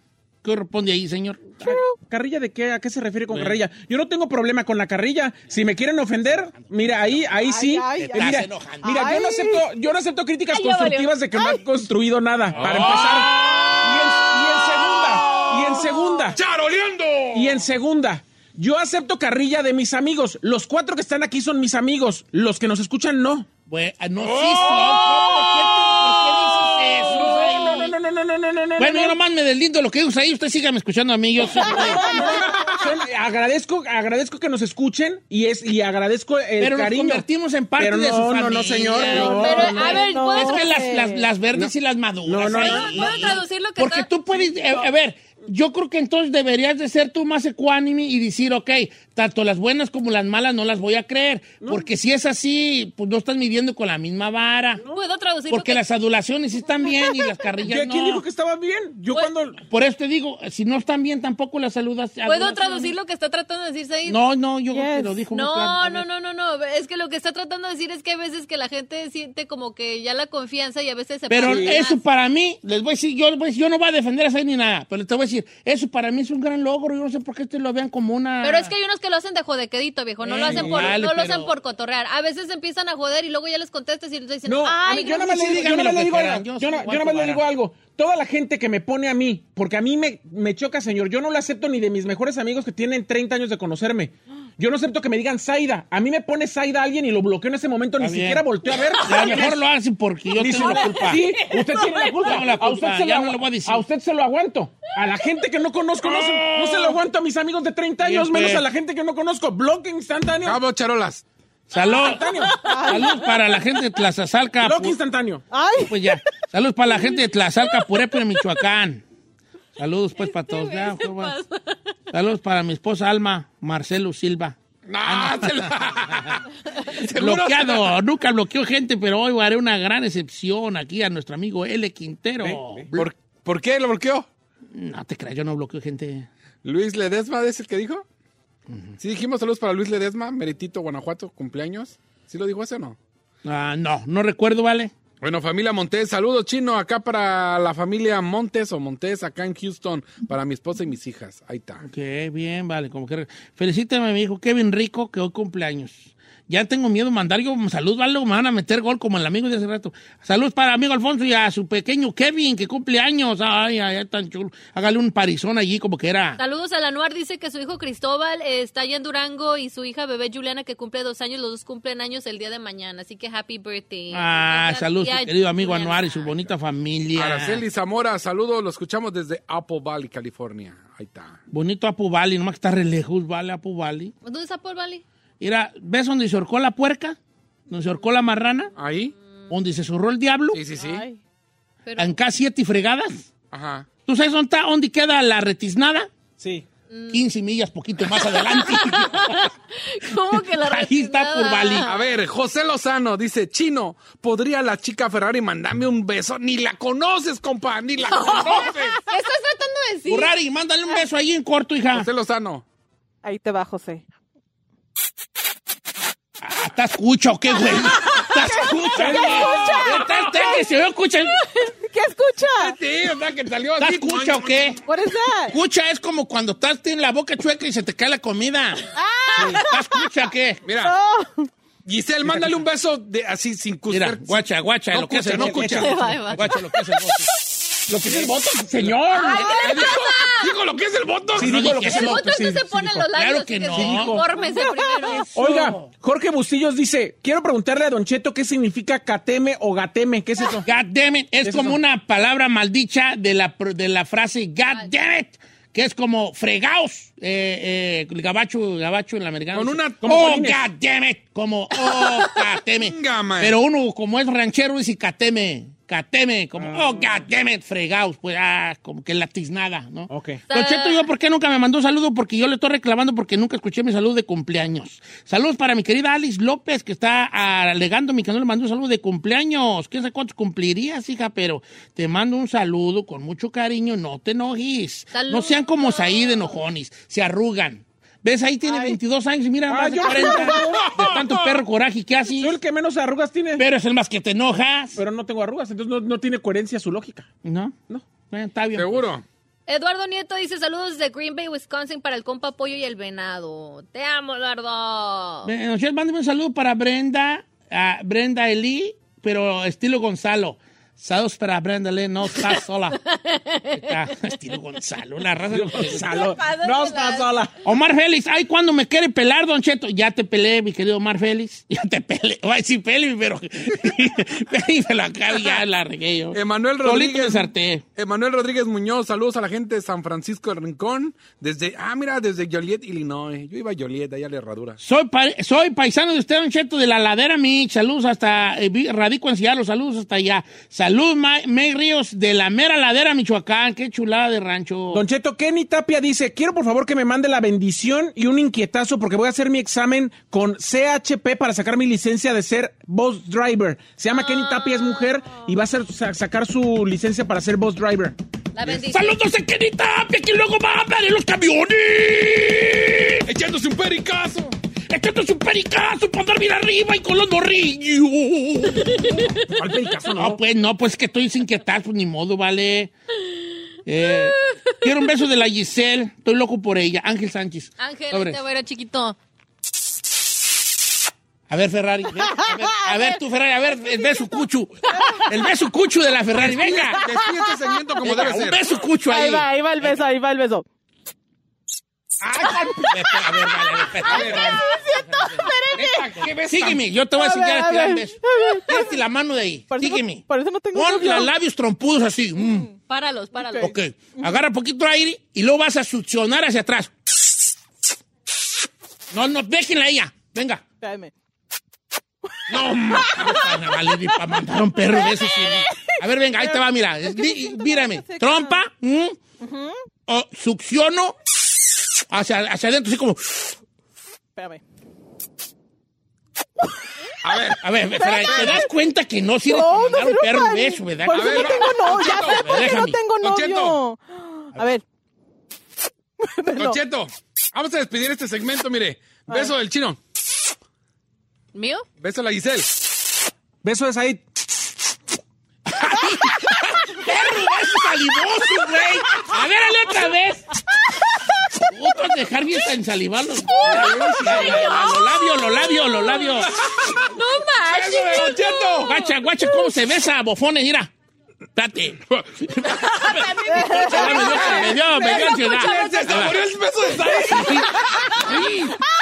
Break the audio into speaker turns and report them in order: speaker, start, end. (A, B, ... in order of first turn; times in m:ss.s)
0:00.4-0:01.7 A
0:01.6-0:16.4 B
0:01.6-0:02.0 C
0:06.5-0:07.2 A
0:07.4-0:09.7 C
0:08.0-0:09.0 A
0:10.5-0:11.1 D
0:11.3-0:11.6 C
0:12.5-0:13.8 E
0:12.6-0:13.0 A
0:15.2-0:15.5 E
0:15.8-0:16.3 C
0:16.3-0:17.7 E
0:17.3-0:23.5 B
0:23.7-0:27.9 A
0:24.2-0:25.7 E
0:27.0-0:29.2 B
0:28.8-0:32.2 A
0:31.5-0:32.7 C
0:31.7-0:37.2 B
0:32.5-0:32.9 E
0:36.6-0:54.8 A
0:37.8-0:40.0 B
0:39.2-0:40.9 D
0:39.6-0:41.3 C
0:42.2-0:43.4 B
0:42.5-0:44.1 D
0:51.6-0:51.9 B
0:54.9-0:55.8 D
0:55.5-0:58.2 A
0:57.6-0:59.6 B
0:59.6-1:02.9 A
1:02.2-1:04.2 D
1:04.0-1:06.0 A
1:04.7-1:05.2 C
1:05.3-1:12.0 D
1:11.3-1:18.7 A
1:11.4-1:11.8 B
1:18.4-1:25.3 D
1:20.2-1:21.5 A
1:20.4-1:20.9 B
1:24.4-1:39.6 B
1:25.0-1:27.4 A
1:38.0-1:38.4 A
1:39.0-1:43.8 A
1:40.3-1:50.6 B
1:41.6-1:42.1 D
1:46.0-1:46.7 E
1:48.0-1:48.6 A
1:50.4-1:51.2 E
1:51.7-1:55.0 A
1:51.8-1:53.1 D
1:51.9-1:52.6 B
1:52.6-1:53.4 C
1:54.6-1:55.4 B
1:55.5-1:56.1 C
1:55.8-1:59.0 A
1:59.8-2:01.4 A
2:00.2-2:01.8 D
2:02.1-2:06.4 A
2:04.9-2:08.0 E
2:07.0-2:13.0 A
2:12.4-2:12.9 B
2:12.9-2:14.3 E
2:14.7-2:16.3 A
2:16.6-2:18.0 E
2:18.7-2:18.9 A
2:19.0-2:23.0 E
2:23.4-2:24.9 A
2:25.2-2:31.8 E
2:31.8-2:46.4 A
2:46.4-2:56.5 D
2:54.1-2:57.6 A
2:57.1-3:01.4 E
3:01.5-3:04.1 A
3:04.2-3:05.0 D
3:05.4-3:07.2 A
3:07.7-3:08.7 A
3:08.8-3:09.1 E
3:09.5-3:10.6 A
3:10.5-3:11.0 E
3:10.7-3:11.2 C
3:11.8-3:12.2 D
3:12.0-3:13.3 A
3:13.5-3:13.9 E
3:14.0-3:16.1 A
3:16.4-3:16.6 B
3:16.9-3:17.2 D
3:17.1-3:19.5 A
3:18.3-3:22.0 D
3:20.3-3:21.8 A
3:21.8-3:29.0 E
3:28.1-3:30.3 D
3:30.1-3:32.1 A
3:31.9-3:32.6 E
3:33.2-3:34.0 C
3:36.4-3:41.4 A
3:37.9-3:40.6 C
3:39.0-3:39.6 B
3:41.6-3:42.8 C
3:42.6-3:44.8 E
3:43.8-3:44.8 A
3:44.8-3:45.6 C
3:45.5-3:48.9 A
3:48.9-3:50.1 C
3:49.4-3:49.6 B
3:49.5-3:50.6 A
3:50.6-3:50.9 E
3:50.7-3:51.5 C
3:51.8-3:54.4 E
3:52.3-3:52.6 B
3:53.9-3:57.3 A
3:55.0-3:56.5 B
3:55.6-3:56.6 D
3:57.9-3:59.6 B
3:58.8-4:01.8 E
3:59.1-4:00.5 D
4:01.3-4:03.0 B
4:01.4-4:02.3 A
4:01.8-4:05.3 D
4:03.1-4:04.2 A
4:03.7-4:04.2 B
4:04.4-4:05.2 C
4:05.1-4:05.9 A
4:05.3-4:10.7 B
4:10.6-4:52.5 A
4:11.4-4:11.8 B
4:19.5-4:20.2 E
4:20.0-4:20.6 B
4:22.8-4:23.6 E
4:26.6-4:27.2 B
4:30.1-4:30.4 B
4:30.5-4:31.1 D
4:45.1-4:46.6 D
4:48.6-4:49.0 C
4:49.7-4:50.8 B
4:50.7-4:51.6 E
4:52.4-4:53.6 B
4:53.6-4:55.0 A
4:55.0-4:57.3 B
4:57.4-4:59.1 A
4:58.7-4:59.2 E
4:59.7-5:05.5 D
5:05.4-5:13.0 A
5:13.0-5:14.0 D
5:13.7-5:16.2 A
5:15.5-5:17.5 B
5:16.1-5:17.4 D
5:17.6-5:27.8 A
5:26.3-5:34.8 E
5:34.8-5:45.0 A
5:44.9-5:58.2 B
5:54.1-5:55.4 D
5:58.5-5:59.2 D
5:58.7-6:03.2 A
6:03.2-6:04.5 E
6:04.9-6:09.1 A
6:09.4-6:10.4 B
6:10.1-6:12.9 A
6:13.8-6:18.4 A
6:17.8-6:19.2 D
6:21.5-6:27.0 A
6:22.2-6:23.2 C
6:24.9-6:25.4 C
6:26.4-6:28.7 E
6:27.0-6:27.8 C
6:28.0-6:30.0 A
6:29.0-6:30.6 C
6:32.3-6:35.5 A
6:32.4-6:33.0 C
6:33.8-6:36.2 C
6:34.0-6:34.6 E
6:35.7-6:36.8 E
6:36.2-6:42.7 A
6:37.1-6:39.0 C
6:39.7-6:41.3 C
6:42.4-6:42.8 C
6:42.9-6:43.7 D
6:43.4-6:44.3 C
6:43.6-6:46.9 A
6:49.1-6:50.6 A
6:50.8-6:51.1 C
6:52.5-6:53.4 E
6:52.5-6:58.6 C
6:53.2-6:59.2 A
6:59.4-6:59.8 C
7:00.1-7:01.2 A
7:02.1-7:03.6 A
7:04.4-7:04.6 C
7:07.2-7:07.6 E
7:07.4-7:08.7 C
7:07.6-7:11.6 A
7:08.2-7:08.6 E
7:09.4-7:14.8 C
7:11.1-7:12.4 E
7:12.3-7:13.0 A
7:13.2-7:13.8 E
7:16.2-7:16.8 C
7:16.5-7:20.0 E
7:19.3-7:19.5 C
7:21.5-7:21.8 D
7:22.0-7:22.7 E
7:23.6-7:24.2 B
7:25.7-7:30.4 A
7:31.6-7:36.5 A
7:33.6-7:39.5 D
7:33.8-7:34.7 E
7:36.6-7:37.1 E
7:37.6-7:39.0 E
7:38.8-7:40.9 A
7:41.6-7:46.4 A
7:43.1-7:45.9 D
7:43.4-7:44.7 C
7:44.9-7:48.8 E
7:47.3-7:47.7 A